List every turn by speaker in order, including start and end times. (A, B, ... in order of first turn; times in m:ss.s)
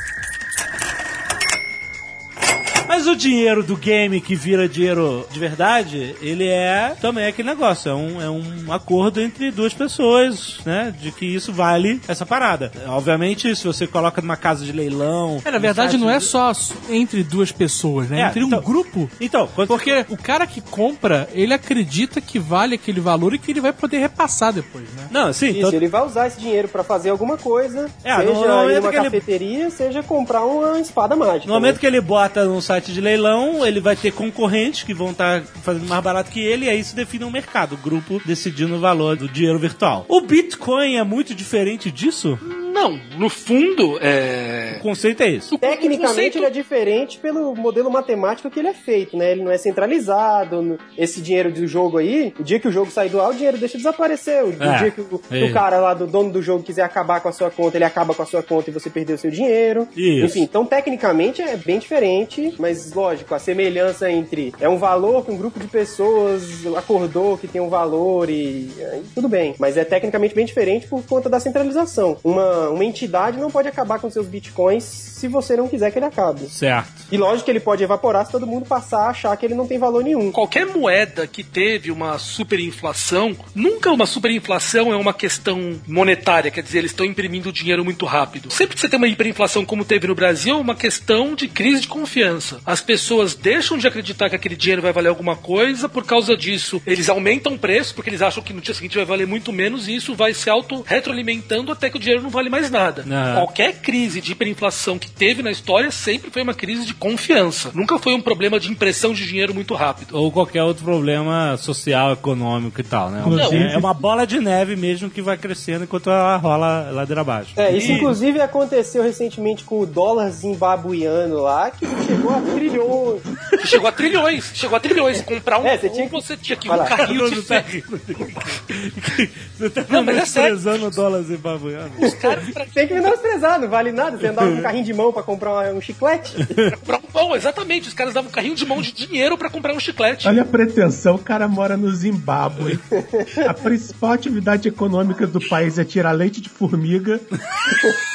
0:02.9-0:16.3 A
0:15.4-0:19.1 B
0:18.2-0:18.7 A
0:19.2-0:20.0 A
0:19.7-0:25.1 B
0:25.1-0:25.8 A
0:25.5-0:31.8 C
0:28.0-0:29.2 A
0:31.5-0:42.4 A
0:42.4-0:44.8 D
0:44.7-0:45.5 A
0:45.5-0:46.5 D
0:45.6-1:16.5 C
0:54.6-0:55.6 A
1:00.0-1:00.5 A
1:16.5-1:17.1 A
1:17.1-1:20.4 C
1:20.3-1:50.1 D
1:43.1-1:43.5 A
1:50.1-1:58.1 A
1:53.2-1:53.9 E
1:53.3-1:53.7 D
1:57.6-2:03.2 C
1:57.7-1:58.1 D
2:03.5-2:03.8 A
2:03.6-2:07.7 D
2:05.6-2:06.9 C
2:07.0-2:12.1 A
2:09.9-2:11.0 D
2:12.0-2:13.1 D
2:12.0-2:16.6 C
2:14.3-2:14.7 A
2:16.7-2:20.4 D
2:20.2-2:22.8 E
2:23.0-2:23.5 C
2:23.4-2:27.3 E